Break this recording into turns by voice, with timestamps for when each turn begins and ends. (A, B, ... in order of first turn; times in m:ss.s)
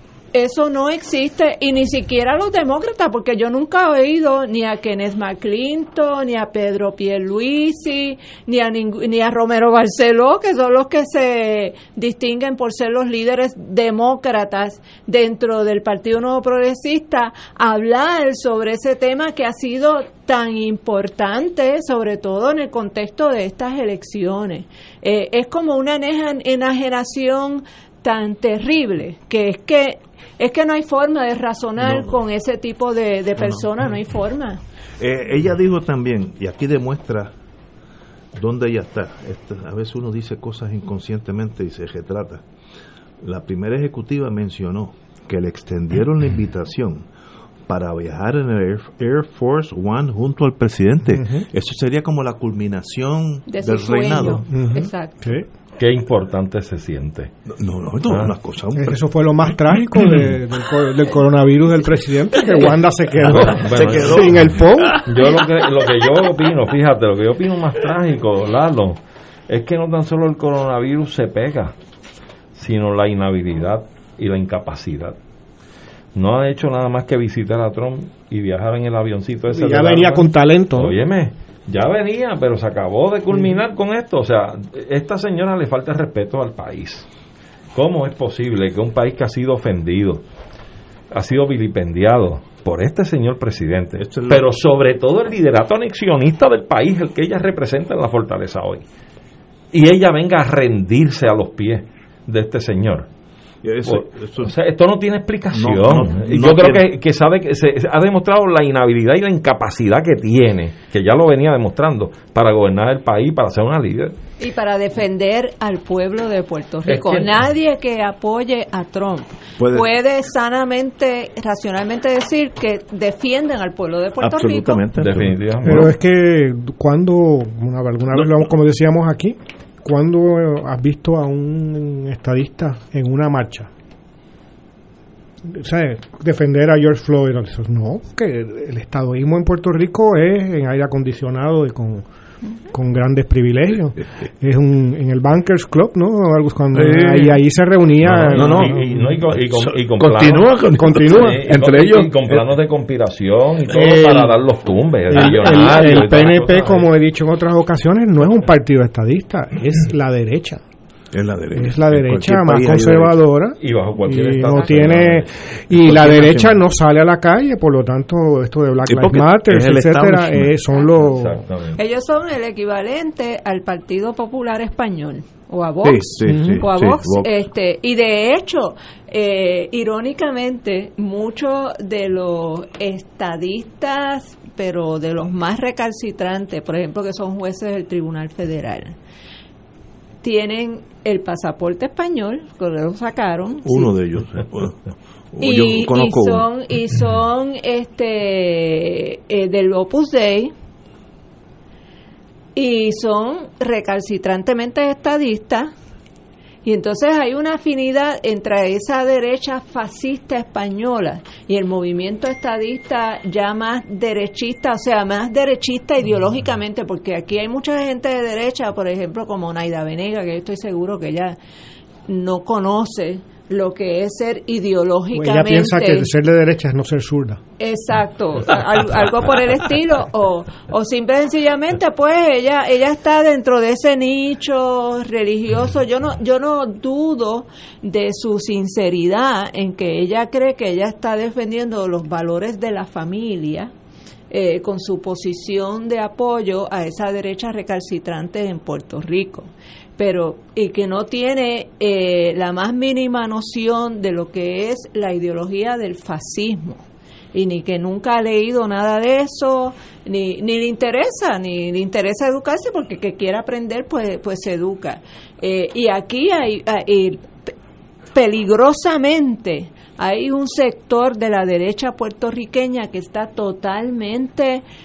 0:00.3-0:34.6 A
0:31.8-0:32.2 B
0:33.4-0:33.7 B
0:35.0-0:37.3 B
0:38.3-0:42.4 B
0:43.2-0:47.1 B
0:47.7-0:54.5 B
0:51.1-0:51.4 C
0:53.5-0:55.2 A
0:54.5-0:55.4 C
0:55.8-0:57.3 D
0:57.5-0:59.0 B
0:58.8-1:05.0 C
1:03.2-1:04.4 D
1:03.3-1:05.0 B
1:05.0-1:09.0 D
1:09.5-1:11.7 D
1:12.6-1:15.2 D
1:16.2-1:27.1 D
1:19.5-1:21.0 C
1:27.7-1:30.2 D
1:31.1-1:38.8 D
1:34.0-1:34.5 B
1:39.7-1:43.1 D
1:43.6-1:44.5 B
1:43.8-1:54.2 D
1:45.5-1:46.9 B
1:54.4-2:04.8 A
1:56.9-1:57.3 D
1:59.6-1:59.9 B
2:04.2-2:05.9 B
2:05.0-2:05.9 D
2:05.6-2:13.7 C
2:08.1-2:08.5 B
2:15.5-2:22.1 C
2:22.7-2:29.2 C
2:26.7-2:27.4 B
2:28.0-2:36.9 D
2:28.3-2:32.5 B
2:30.7-2:31.4 C
2:33.7-2:34.3 C
2:35.1-2:40.6 C
2:41.1-2:43.2 B
2:41.5-2:51.4 C
2:43.6-2:45.3 D
2:45.7-2:46.6 B
2:48.8-2:50.6 B
2:51.0-2:51.8 D
2:51.8-3:09.0 A
2:55.8-2:57.3 B
2:56.3-2:56.6 C
3:10.2-3:13.9 A
3:13.6-3:14.8 B
3:15.3-3:16.5 B
3:15.4-3:20.5 A
3:22.6-3:25.7 A
3:26.6-3:41.4 A
3:42.1-3:46.1 A
3:45.1-3:47.4 C
3:47.6-4:03.7 A
4:04.3-4:27.5 A
4:28.2-4:34.6 A